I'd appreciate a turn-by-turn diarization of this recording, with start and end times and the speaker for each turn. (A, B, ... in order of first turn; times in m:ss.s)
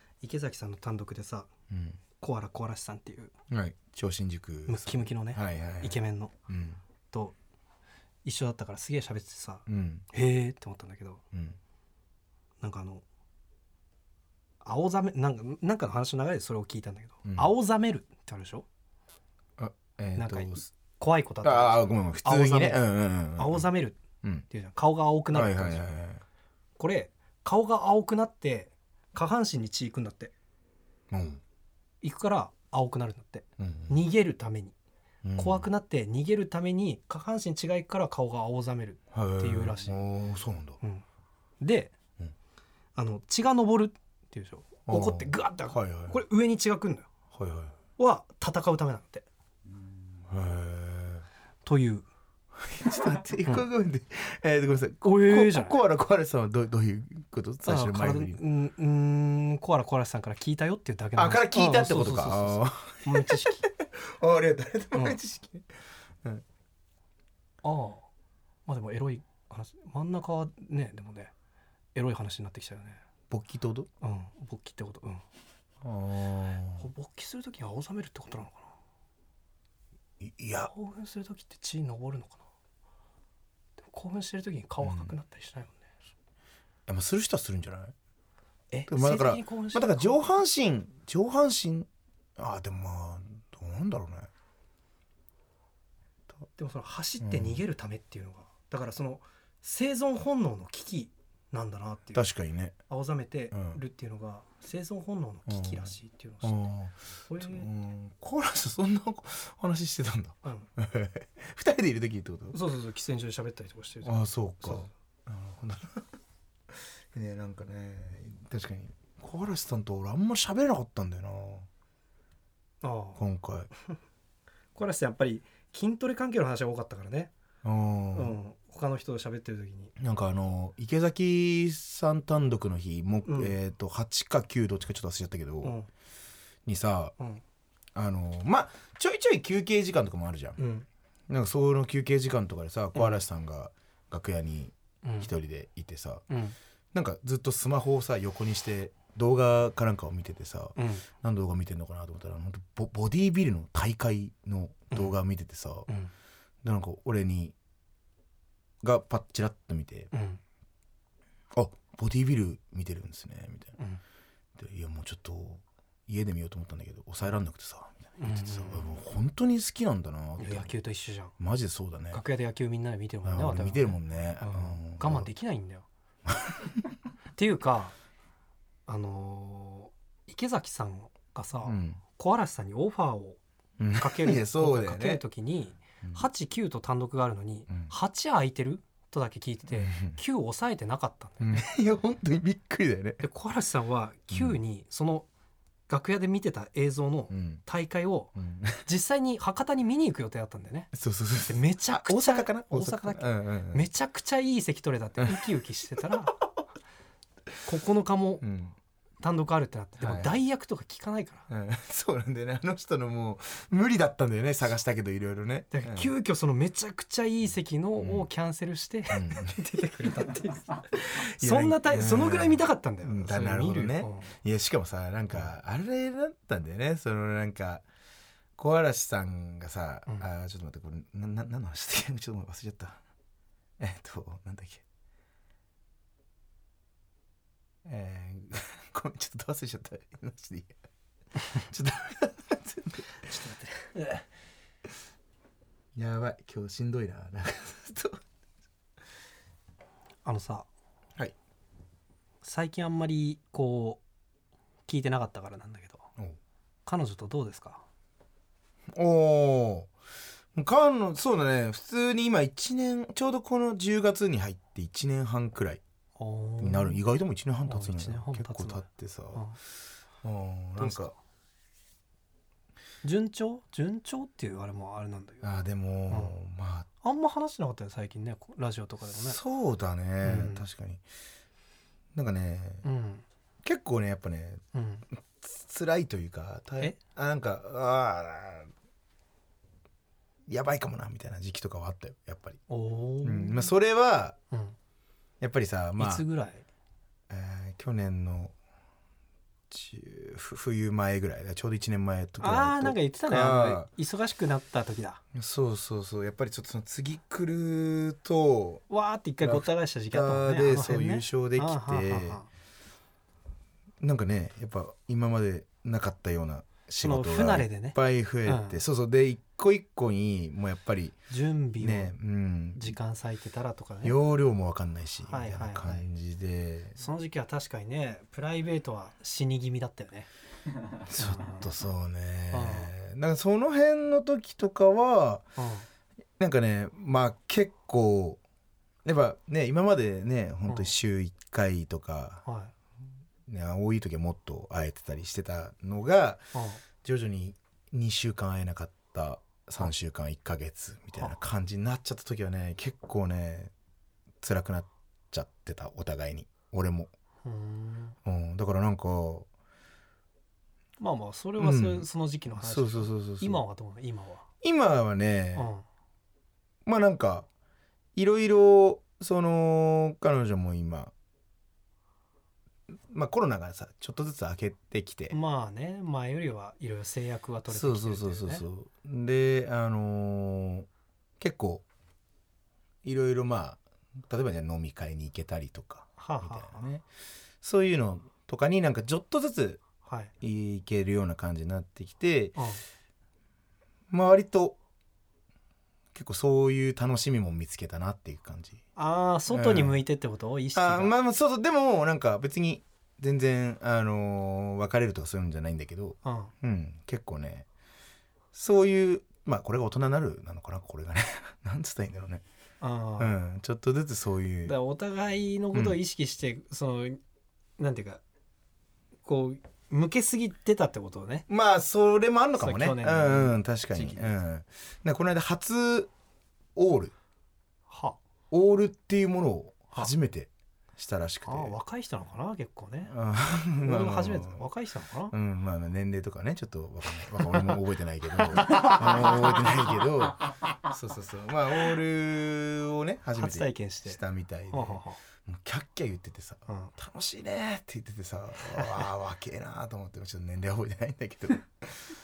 0:00.2-0:01.5 A
0:01.7-0:02.0 B
0:02.2-0:03.3 A
0:03.5-0:06.8 B
0:04.7-0:06.3 A
0:08.2-0:11.2 A
0:09.7-0:10.0 B
0:11.3-0:11.6 B
0:12.6-0:13.0 A
0:14.6-0:18.6 A
0:17.2-0:17.5 B
0:19.6-0:20.7 B
0:20.2-0:22.8 A
0:21.4-0:23.7 B
0:23.3-0:25.8 A
0:25.3-0:26.2 B
0:26.8-0:30.3 A
0:31.1-0:31.4 B
0:32.0-0:34.7 A
0:33.6-0:34.0 B
0:35.2-0:35.7 B
0:35.4-0:40.0 A
0:39.1-0:40.8 B
0:41.6-0:41.9 A
0:43.0-0:47.1 A
0:44.9-0:46.2 B
0:47.3-0:47.7 B
0:48.0-0:49.2 A
0:50.3-0:51.2 B
0:51.6-0:52.0 A
0:52.6-0:58.4 B
0:55.0-0:55.8 A
0:57.6-1:03.6 A
1:01.2-1:05.7 B
1:04.9-1:05.2 A
1:07.6-1:08.1 A
1:08.7-1:11.3 A
1:11.9-1:13.0 A
1:13.3-1:13.9 B
1:14.0-1:15.2 A
1:15.8-1:16.8 B
1:16.8-1:18.7 A
1:20.2-1:20.7 B
1:20.6-1:22.4 A
1:23.8-1:25.8 A
1:24.8-1:25.1 B
1:26.9-1:27.9 B
1:28.7-1:30.2 A
1:28.9-1:34.3 B
1:36.6-1:42.2 A
1:37.2-1:37.6 B
1:42.1-1:42.8 B
1:42.9-1:46.6 A
1:43.5-1:43.8 B
1:45.5-1:52.6 B
1:47.2-1:47.7 A
1:50.4-1:50.7 A
1:52.5-1:54.9 A
1:54.0-1:56.1 B
1:56.7-2:01.7 B
2:02.8-2:03.2 A
2:03.2-2:03.7 B
2:04.7-2:07.3 A
2:07.6-2:08.4 B
2:08.1-2:09.9 A
2:10.0-2:15.8 B
2:13.2-2:13.5 A
2:15.6-2:15.9 A
2:16.6-2:17.1 B
2:17.9-2:20.6 B
2:20.6-2:20.9 A
2:21.3-2:26.2 B
2:22.9-2:23.2 A
2:25.0-2:25.3 A
2:26.3-2:26.6 A
2:26.9-2:35.9 B
2:30.8-2:31.1 A
2:36.6-2:37.5 B
2:38.8-2:40.1 B
2:40.1-2:40.4 A
2:41.5-2:43.7 B
2:44.6-2:50.7 B
2:48.2-2:48.9 A
2:50.4-2:51.3 A
2:51.4-2:52.2 B
2:52.1-2:55.8 A
2:53.2-2:55.3 B
2:56.3-2:56.8 B
2:57.4-2:58.0 A
2:58.9-3:03.4 A
3:01.6-3:02.0 B
3:03.8-3:05.2 B
3:03.9-3:11.6 A
3:09.7-3:10.2 B
3:11.4-3:13.2 B
3:13.2-3:15.3 A
3:14.3-3:14.6 B
3:15.9-3:18.3 A
3:17.3-3:17.6 B
3:18.4-3:18.8 B
3:18.8-3:20.9 A
3:20.9-3:23.8 B
3:21.5-3:26.4 A
3:27.6-3:28.4 A
3:28.4-3:28.8 B
3:29.2-3:31.5 A
3:30.0-3:30.4 B
3:31.5-3:36.1 B
3:35.7-3:44.3 A
3:38.0-3:38.3 B
3:39.1-3:39.6 B
3:41.4-3:47.8 B
3:48.6-3:53.0 B
3:53.8-3:54.8 B
3:57.8-4:00.7 B
4:01.6-4:03.0 B
4:03.2-4:03.9 A
4:05.9-4:08.2 B
4:10.2-4:10.7 A
4:12.4-4:14.0 A
4:14.9-4:16.1 A
4:16.8-4:17.8 A
4:18.9-4:19.9 B
4:20.5-4:25.8 B
4:26.2-4:27.0 A
4:26.6-4:29.4 B
4:27.7-4:29.6 A
4:30.2-4:31.1 B
4:30.8-4:31.1 A
4:33.0-4:35.4 A
4:35.4-4:36.9 B
4:36.1-4:36.3 A
4:37.0-4:39.4 A
4:39.2-4:41.0 B
4:40.2-4:40.6 A
4:42.1-4:42.8 B
4:42.8-4:43.2 A
4:43.6-4:44.6 B
4:44.7-4:45.0 A
4:45.3-4:48.7 B
4:50.5-4:52.6 B
4:52.7-4:53.7 A
4:53.2-4:54.4 B
4:55.4-4:56.2 B
4:56.0-4:56.6 A
4:57.3-4:58.5 B
4:59.7-5:03.9 B
5:02.4-5:05.2 A
5:05.3-5:08.8 B
5:08.9-5:12.4 A
5:09.4-5:12.4 B
5:14.0-5:21.2 B
5:17.0-5:18.8 A
5:21.3-5:22.1 A
5:21.8-5:23.0 B
5:22.8-5:24.2 A
5:24.0-5:27.0 B
5:25.3-5:26.0 A
5:27.0-5:30.3 A
5:31.0-5:35.4 B
5:31.2-5:31.7 A
5:32.5-5:32.9 A
5:35.6-5:35.8 A
5:36.4-5:38.4 B
5:39.0-5:42.4 B
5:42.4-5:42.7 A
5:43.5-5:46.5 B
5:46.5-5:46.8 A
5:47.0-5:53.7 B
5:54.4-5:57.1 B
5:57.4-5:58.2 A
5:58.2-5:59.5 B
6:01.0-6:04.4 A
6:01.6-6:02.1 B
6:02.6-6:03.6 B
6:04.6-6:05.7 B
6:05.6-6:05.8 A
6:06.8-6:07.5 B
6:08.1-6:11.1 B
6:13.1-6:15.3 B
6:15.3-6:18.6 A
6:17.7-6:20.9 B
6:21.4-6:21.8 B
6:23.0-6:27.0 B
6:26.2-6:26.8 A
6:27.6-6:29.8 B
6:30.0-6:30.3 A
6:30.4-6:32.6 B
6:32.6-6:32.8 A
6:34.1-6:34.8 B
6:36.1-6:38.8 B
6:39.0-6:41.1 A
6:39.5-6:40.0 B
6:40.7-6:47.7 B
6:46.2-6:46.5 A
6:48.5-6:52.4 B
6:52.8-6:53.3 A
6:53.2-6:54.7 B
6:54.6-6:57.2 A
6:55.7-6:56.0 B
6:57.8-6:58.2 A
6:59.2-7:01.4 A
7:01.5-7:06.1 B
7:02.6-7:04.3 A
7:06.8-7:07.1 B
7:07.9-7:08.2 A
7:08.5-7:11.8 B
7:11.4-7:13.1 A
7:13.1-7:14.6 B
7:13.8-7:15.3 A
7:15.3-7:32.0 B
7:18.5-7:19.7 A
7:23.4-7:24.2 A
7:24.7-7:25.2 A
7:26.7-7:26.9 A
7:28.7-7:29.0 A